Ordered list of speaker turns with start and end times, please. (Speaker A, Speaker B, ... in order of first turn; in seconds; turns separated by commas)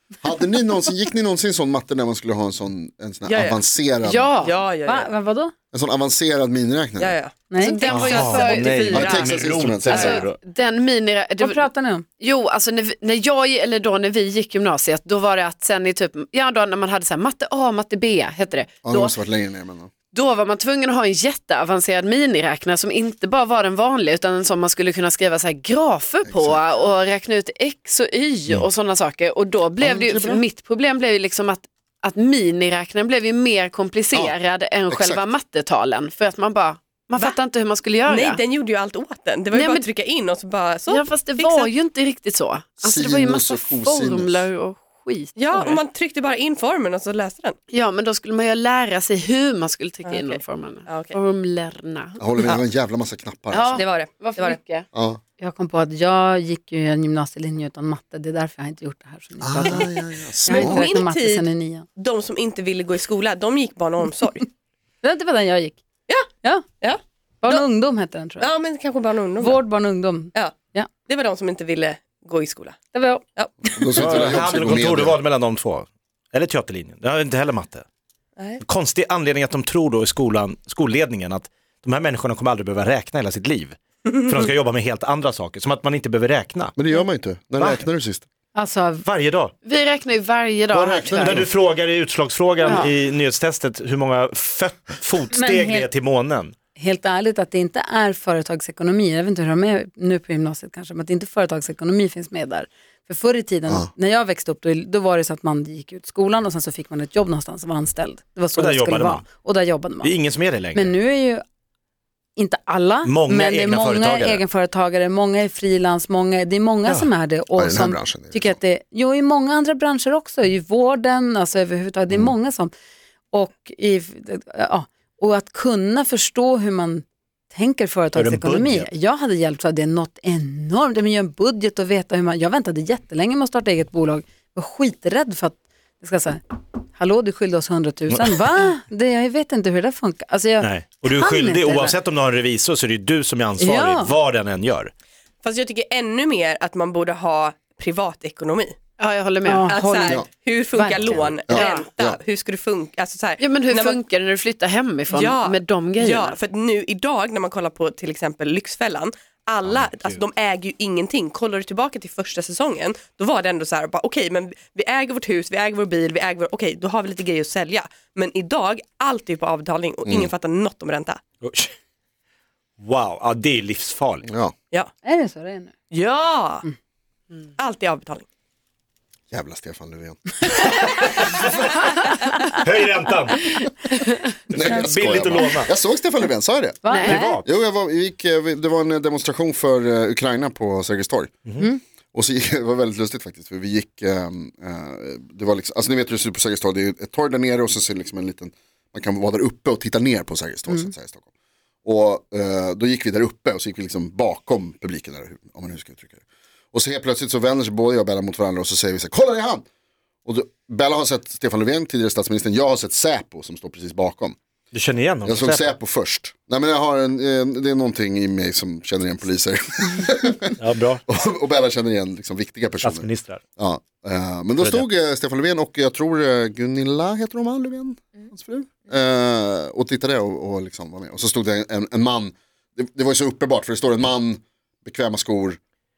Speaker A: 0.2-4.3, Speaker B: 3.2-3.6, Speaker C: 4.0-4.6, Speaker B: 4.4-5.1, Speaker D: 4.8-5.5, Speaker A: 5.7-7.2, Speaker B: 7.0-7.3, Speaker D: 7.5-7.8, Speaker C: 7.6-11.7, Speaker E: 7.9-10.4, Speaker B: 8.0-9.2, Speaker A: 8.8-10.2, Speaker D: 11.4-12.0, Speaker C: 12.2-19.1, Speaker A: 18.8-19.9, Speaker C: 20.1-38.4, Speaker A: 26.2-26.6, Speaker A: 29.8-30.4, Speaker A: 34.9-35.3, Speaker B: 38.0-41.7, Speaker C: 39.5-39.9, Speaker C: 40.9-45.8, Speaker A: 42.8-44.5, Speaker B: 45.4-47.6, Speaker C: 47.7-52.2, Speaker B: 50.0-51.2, Speaker A: 52.2-53.8, Speaker C: 53.5-54.9, Speaker B: 53.8-54.6, Speaker A: 54.9-55.2, Speaker D: 55.4-61.9, Speaker A: 59.4-60.9, Speaker B: 60.5-64.5, Speaker D: 65.0-65.8, Speaker B: 66.8-67.6, Speaker D: 67.4-68.5, Speaker B: 68.4-69.7, Speaker D: 69.4-70.9, Speaker B: 70.3-72.8, Speaker D: 72.9-74.0, Speaker A: 73.7-75.2, Speaker E: 74.0-77.8, Speaker E: 78.6-86.7, Speaker A: 86.8-88.2, Speaker E: 87.6-87.8, Speaker D: 88.5-89.0, Speaker E: 89.0-89.5, Speaker C: 89.6-91.5, Speaker A: 90.7-91.5, Speaker E: 91.2-96.5, Speaker C: 92.6-92.9, Speaker D: 95.3-95.9, Speaker D: 96.7-110.1, Speaker E: 108.5-109.2, Speaker E: 110.0-110.9, Speaker D: 110.7-111.4, Speaker D: 112.3-122.7, Speaker E: 113.0-114.4, Speaker A: 117.5-118.6, Speaker D: 123.3-136.4, Speaker E: 128.1-128.9, Speaker D: 136.9-142.0, Speaker E: 138.1-138.3, Speaker E: 140.6-144.9, Speaker D: 143.6-144.1, Speaker B: 145.4-148.8, Speaker C: 149.0-150.0, Speaker D: 149.4-150.2, Speaker B: 149.6-154.0, Speaker D: 150.7-151.3, Speaker E: 151.1-151.3, Speaker A: 151.5-152.2, Speaker C: 151.5-151.8, Speaker C: 153.4-156.4, Speaker B: 155.1-171.2, Speaker E: 159.6-160.2, Speaker E: 171.4-171.7, Speaker E: 172.8-174.3, Speaker A: 174.3-174.5, Speaker D: 175.0-175.7, Speaker B: 175.9-176.7, Speaker B: 177.6-178.2, Speaker A: 179.3-180.3, Speaker E: 180.7-181.9, Speaker E: 182.5-183.5, Speaker E: 184.5-185.7, Speaker A: 184.5-191.4, Speaker D: 186.8-187.4, Speaker C: 186.9-187.2, Speaker E: 187.0-187.4, Speaker A: 192.1-201.2, Speaker A: 201.8-206.2, Speaker A: 206.7-209.6, Speaker A: 210.2-214.3, Speaker E: 214.7-215.7, Speaker A: 215.2-220.6, Speaker E: 220.6-221.0, Speaker A: 221.1-235.6, Speaker E: 222.8-223.4, Speaker E: 224.6-224.8